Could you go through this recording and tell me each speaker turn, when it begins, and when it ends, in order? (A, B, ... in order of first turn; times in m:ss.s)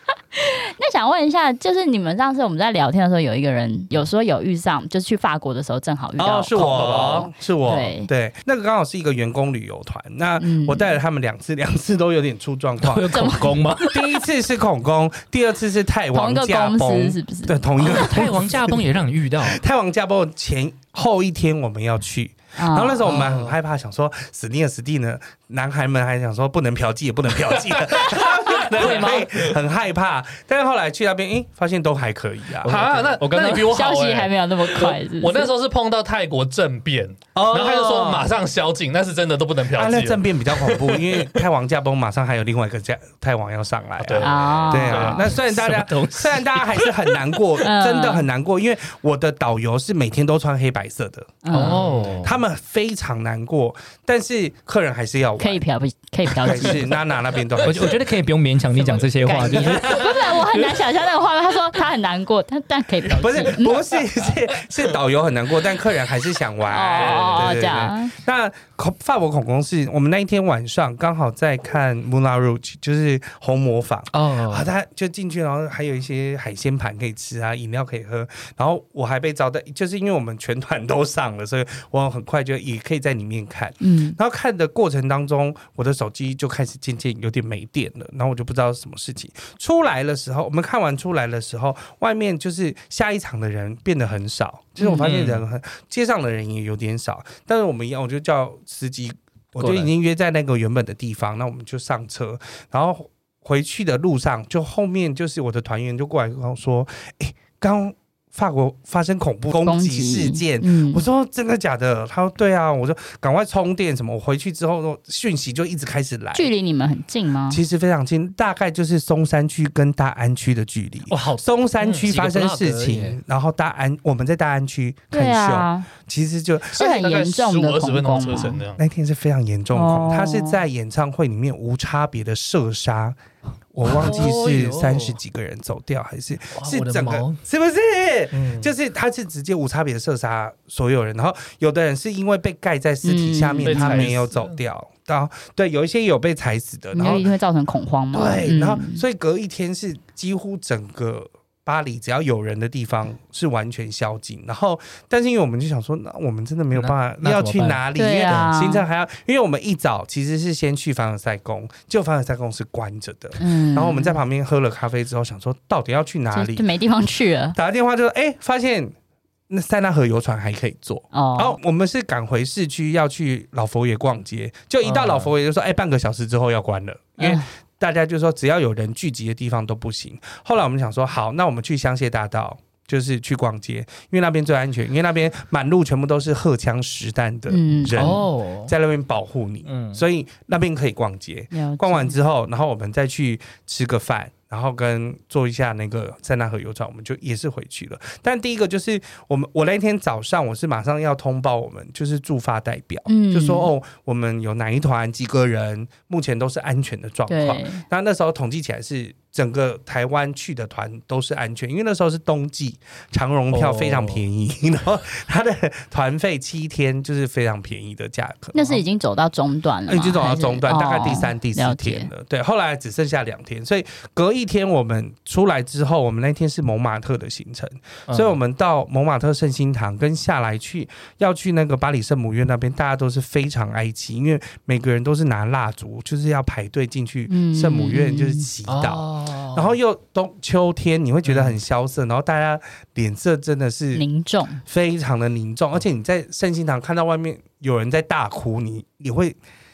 0:00.3-0:08.1 A
0:06.2-0:13.2 B
0:06.6-0:07.3 C
0:10.4-0:10.9 A
0:12.8-0:13.9 D
0:13.1-0:14.0 A
0:13.9-0:18.8 B
0:16.1-0:18.2 A
0:17.8-0:19.6 D
0:19.4-0:33.0 B
0:22.6-0:23.1 A
0:23.0-0:23.6 D
0:28.7-0:29.3 D
0:28.8-0:29.2 C
0:32.6-0:33.7 D
0:32.6-0:41.4 C
0:33.6-0:35.5 A
0:37.3-0:38.3 B
0:39.7-0:51.4 B
0:44.0-0:45.3 C
0:44.2-0:45.3 A
0:45.3-0:47.0 D
0:47.6-0:48.3 A
0:51.4-0:51.8 A
0:51.5-0:52.4 D
0:51.5-0:52.3 C
0:52.2-0:55.6 B
0:55.4-0:56.9 A
0:56.4-0:58.0 B
0:57.6-1:00.6 D
0:59.2-1:03.9 A
0:59.4-0:59.6 B
1:03.1-1:04.3 C
1:03.2-1:56.5 B
1:06.6-1:08.1 A
1:06.9-1:07.6 C
1:14.1-1:14.7 D
1:23.8-1:24.2 A
1:34.8-1:35.1 A
1:35.0-1:35.4 D
1:39.6-1:39.9 D
1:49.6-1:51.0 A
1:56.3-1:57.6 A
1:57.5-2:06.7 B
2:01.1-2:01.4 D
2:01.8-2:02.1 C
2:02.0-2:03.2 D
2:05.1-2:05.9 A
2:06.7-2:08.6 A
2:06.7-2:08.8 C
2:08.8-2:13.2 B
2:09.7-2:10.6 A
2:13.7-2:27.3 B
2:13.8-2:15.2 D
2:16.5-2:17.4 D
2:18.3-2:18.7 C
2:23.0-2:24.1 A
2:23.6-2:24.6 C
2:26.9-2:29.0 A
2:28.1-2:46.6 B
2:36.7-2:38.5 D
2:38.0-2:38.8 A
2:43.4-2:44.2 A
2:46.3-2:47.6 A
2:47.5-2:48.9 B
2:49.5-3:38.7 B
2:51.1-2:51.6 A
2:54.8-2:55.3 D
2:57.2-2:57.5 A
3:07.5-3:08.1 A
3:07.9-3:08.7 D
3:09.6-3:10.0 D
3:11.5-3:12.2 A
3:23.1-3:23.7 A
3:27.3-3:27.8 A
3:33.5-3:34.2 D
3:38.5-3:42.1 A
3:39.9-4:04.0 B
3:48.1-3:48.4 D
3:57.3-3:58.5 A
3:58.6-3:59.8 D
4:01.3-4:01.6 D
4:03.9-4:04.6 A
4:04.6-4:09.4 B